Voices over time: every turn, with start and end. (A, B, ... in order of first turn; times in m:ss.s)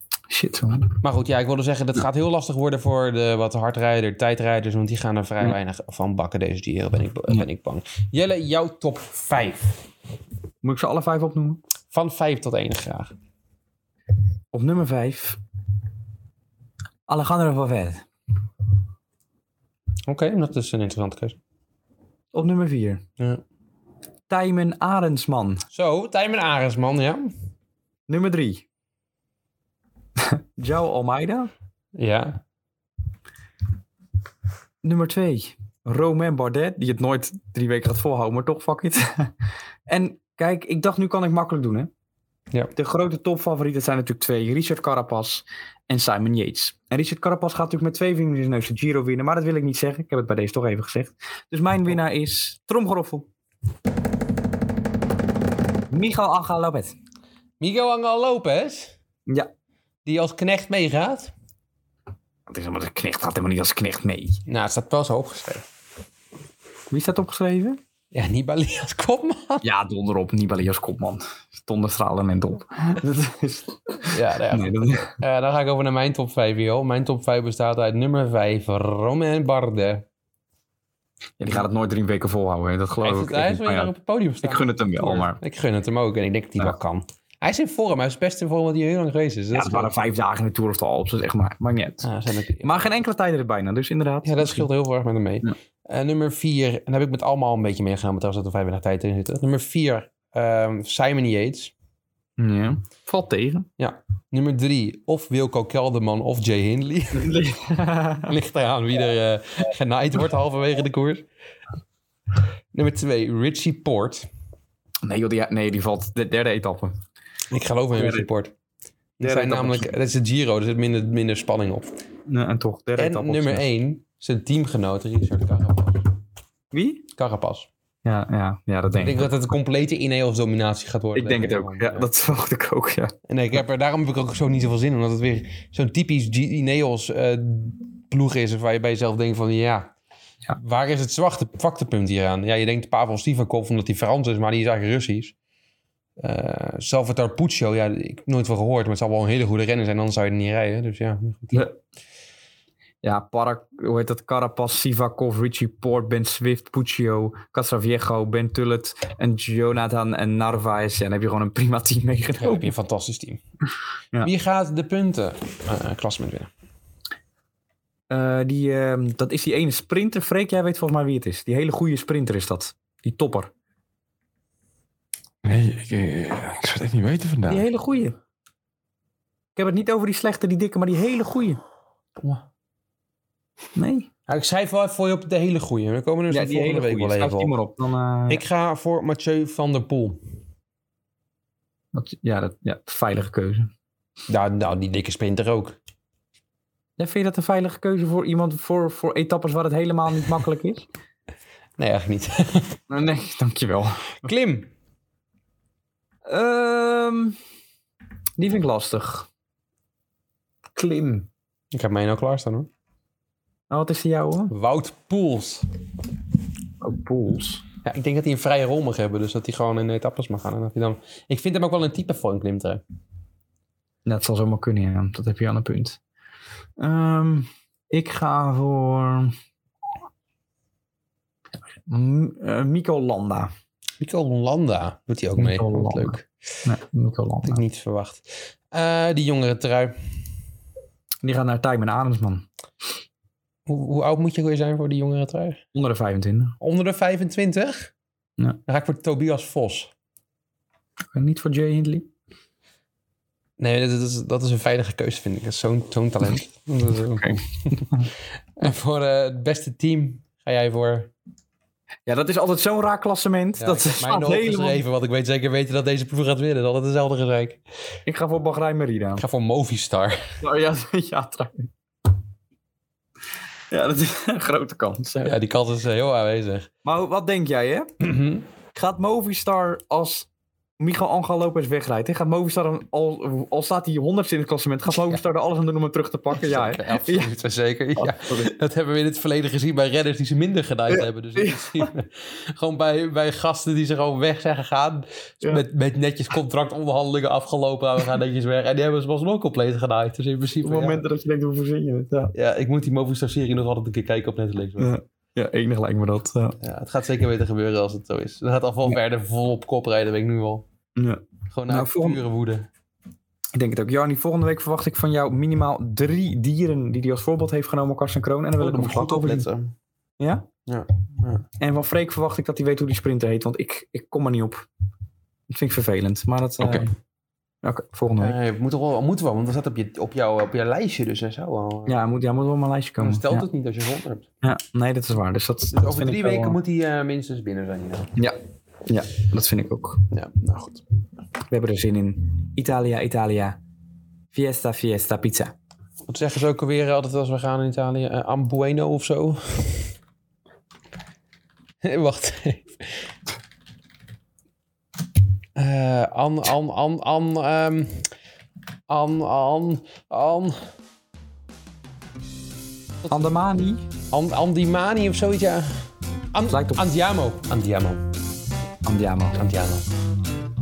0:00.3-0:01.0 A
0:01.0-0:09.7 B
0:10.6-0:11.6 A
0:11.9-0:13.1 B
0:14.5-0:15.4 A
0:17.1-0:18.0 A
0:20.1-0:21.4 B
0:22.3-0:23.0 A
0:23.2-0:23.4 B
0:24.3-0:25.6 A
0:25.7-0:27.3 B
0:28.1-0:28.6 A
0:30.2-0:31.5 A
0:32.0-0:32.4 B
0:34.8-0:39.3 A
0:39.9-0:41.9 A
0:42.7-0:53.3 A
0:55.9-0:57.0 A
0:57.6-0:59.0 B
1:00.0-1:01.3 B
1:02.5-1:04.4 A
1:04.4-1:05.6 B
1:06.9-1:07.8 A
1:08.1-1:09.6 B
1:09.6-1:15.1 A
1:14.1-1:20.0 B
1:21.4-1:23.9 A
1:23.0-1:29.9 B
1:24.4-1:25.4 A
1:29.5-1:32.1 A
1:32.0-1:32.9 B
1:32.6-1:34.7 A
1:34.2-1:41.7 B
1:42.4-1:43.7 A
1:43.8-1:47.4 B
1:47.2-1:48.3 A
1:48.2-1:51.2 B
1:52.7-1:54.3 B
1:55.0-1:57.0 A
1:57.5-1:58.5 B
1:57.9-1:58.3 A
1:59.2-2:01.9 B
1:59.2-1:59.9 A
2:02.3-2:03.6 A
2:03.0-2:06.0 B
2:06.7-2:07.0 A
2:07.2-2:07.7 B
2:08.0-2:09.3 A
2:09.0-2:12.1 B
2:11.1-2:13.1 A
2:13.3-2:19.9 B
2:20.5-2:25.3 B
2:26.2-2:31.7 B
2:33.0-2:42.7 A
2:42.4-2:43.4 B
2:44.2-2:46.5 B
2:48.1-2:53.5 A
2:55.4-2:57.7 C
2:57.5-2:58.2 A
2:59.6-3:01.6 A
3:02.2-3:02.4 B
3:03.8-3:04.1 A
3:04.3-3:07.5 B
3:06.3-3:08.4 A
3:08.3-3:10.2 B
3:11.9-3:13.7 A
3:14.3-3:15.8 B
3:17.0-3:20.8 A
3:21.8-3:22.8 B
3:22.9-3:24.3 A
3:24.2-3:24.7 B
3:26.2-3:27.4 A
3:28.4-3:29.3 A
3:30.7-3:31.3 A
3:31.7-3:32.7 B
3:33.7-3:34.5 A
3:34.5-3:35.6 B
3:36.8-3:37.6 A
3:37.8-3:42.8 B
3:44.0-3:46.0 A
3:46.8-3:49.3 A
3:51.8-3:53.5 A
3:54.0-3:56.2 B
3:55.4-3:57.6 A
3:57.4-4:00.0 B
4:01.2-4:02.5 A
4:03.7-4:05.6 B
4:05.7-4:06.6 A
4:06.6-4:07.9 B
4:08.6-4:09.9 B
4:11.1-4:12.1 A
4:13.6-4:18.0 B
4:17.1-4:18.1 A
4:18.6-4:21.1 B
4:22.0-4:24.8 A
4:23.6-4:27.6 B
4:28.0-4:29.2 A
4:29.2-4:30.4 B
4:30.4-4:31.7 A
4:33.7-4:35.4 A
4:35.2-4:36.7 B
4:36.8-4:37.9 A
4:38.0-4:38.4 B
4:38.7-4:40.3 A
4:40.8-4:47.3 A
4:46.3-5:01.0 B
4:48.0-4:48.5 A
4:50.9-4:51.9 A
5:00.6-5:02.3 A
5:02.3-5:04.9 B
5:04.8-5:06.6 A
5:06.6-5:10.6 B
5:11.0-5:12.2 A
5:11.5-5:12.7 B
5:13.5-5:19.5 A
5:18.6-5:19.7 B
5:20.2-5:20.5 A
5:20.7-5:21.4 B
5:21.6-5:24.7 A
5:25.5-5:26.9 A
5:26.6-5:26.9 B
5:27.6-5:28.4 A
5:28.2-5:32.0 B
5:31.8-5:33.4 A
5:33.0-5:34.3 B
5:34.4-5:36.6 A
5:35.7-5:38.1 B
5:38.2-5:40.0 A
5:40.1-5:40.8 B
5:41.5-5:43.6 A
5:44.3-5:45.5 A
5:46.1-5:49.9 B
5:51.8-5:53.1 B
5:55.6-5:58.1 B
5:58.9-6:00.6 B
6:03.0-6:03.3 B
6:03.1-6:03.8 A
6:04.1-6:08.0 B
6:06.5-6:06.8 A
6:08.8-6:09.4 A
6:09.3-6:09.8 B